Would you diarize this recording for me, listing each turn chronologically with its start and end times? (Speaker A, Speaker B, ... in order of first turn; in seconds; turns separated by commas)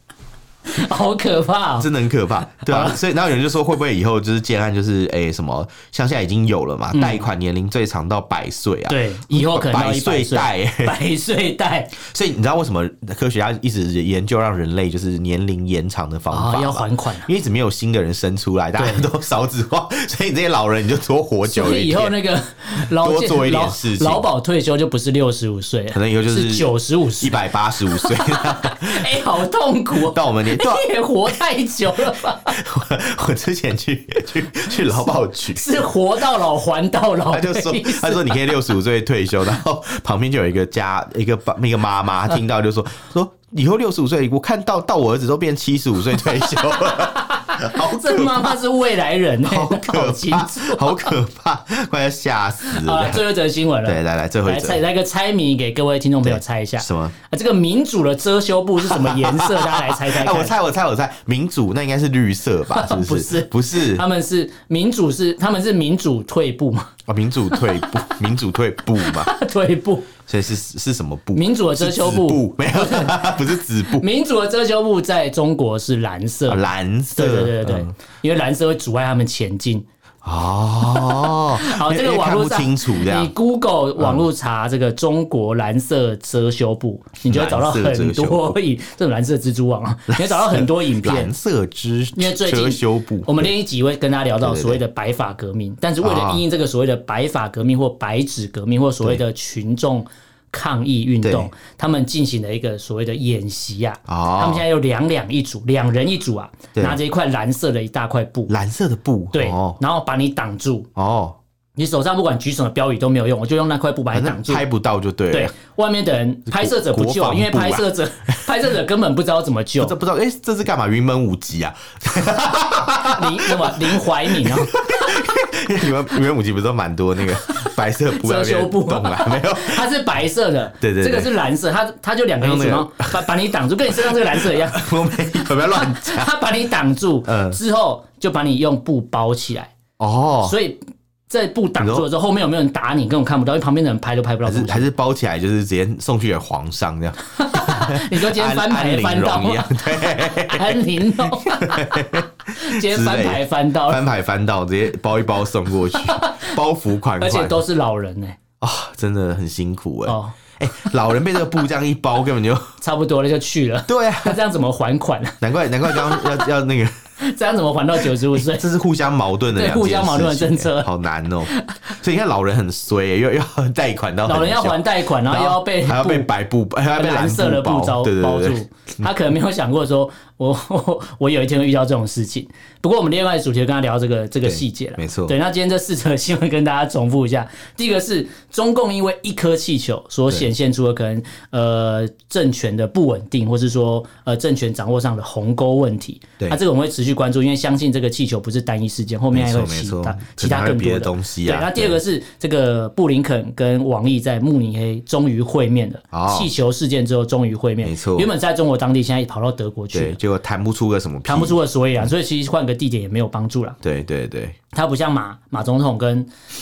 Speaker A: 0.7-1.9, Speaker B: 1.8-11.0, Speaker A: 2.7-3.0, Speaker A: 6.9-7.2, Speaker A: 8.9-12.0, Speaker B: 11.9-22.1, Speaker A: 16.3-17.3, Speaker A: 18.8-19.1, Speaker A: 21.4-32.6, Speaker B: 22.8-24.2, Speaker B: 25.9-29.2, Speaker B: 29.9-30.9, Speaker B: 32.0-35.7, Speaker A: 35.5-38.4, Speaker B: 37.3-48.6, Speaker A: 46.7-51.1, Speaker B: 49.4-53.2, Speaker A: 52.7-60.5, Speaker B: 53.8-54.8, Speaker B: 56.2-57.1, Speaker B: 58.8-64.0, Speaker A: 62.7-66.9, Speaker B: 67.1-69.3, Speaker A: 67.5-68.1, Speaker A: 69.0-70.1, Speaker B: 70.3-74.1, Speaker A: 71.3-79.8, Speaker B: 76.5-77.9, Speaker B: 80.2-83.3, Speaker A: 81.0-91.3, Speaker B: 84.0-84.2, Speaker B: 87.2-88.6, Speaker B: 90.1-93.5, Speaker A: 92.2-108.5, Speaker B: 94.4-94.8, Speaker B: 96.0-96.4, Speaker B: 101.2-101.5, Speaker B: 104.1-104.6, Speaker B: 106.7-107.0, Speaker B: 108.5-109.8, Speaker A: 109.3-110.9, Speaker B: 111.0-111.4, Speaker A: 111.8-114.6, Speaker B: 114.1-115.5, Speaker A: 115.3-120.0, Speaker B: 116.5-118.4, Speaker B: 119.8-129.9, Speaker A: 123.0-125.1, Speaker A: 127.4-134.9, Speaker B: 130.8-131.3, Speaker B: 132.4-136.3, Speaker A: 135.4-139.7, Speaker B: 137.3-137.6, Speaker B: 140.0-140.6, Speaker A: 140.4-144.9, Speaker B: 141.8-142.1, Speaker B: 144.4-157.6, Speaker A: 147.3-154.0, Speaker A: 155.9-156.6, Speaker A: 157.2-158.4, Speaker B: 158.6-162.7, Speaker A: 160.1-160.9, Speaker A: 162.8-166.4, Speaker B: 163.9-164.4, Speaker B: 165.4-167.0, Speaker A: 167.2-168.7, Speaker B: 168.3-179.1, Speaker A: 169.5-170.9, Speaker A: 171.5-171.9, Speaker A: 174.2-176.3, Speaker A: 176.9-210.2, Speaker B: 184.4-185.3, Speaker B: 199.3-202.0, Speaker B: 206.1-206.5, Speaker B: 207.8-208.3, Speaker B: 209.9-212.1, Speaker A: 211.3-213.8, Speaker B: 213.8-214.6, Speaker A: 214.7-216.3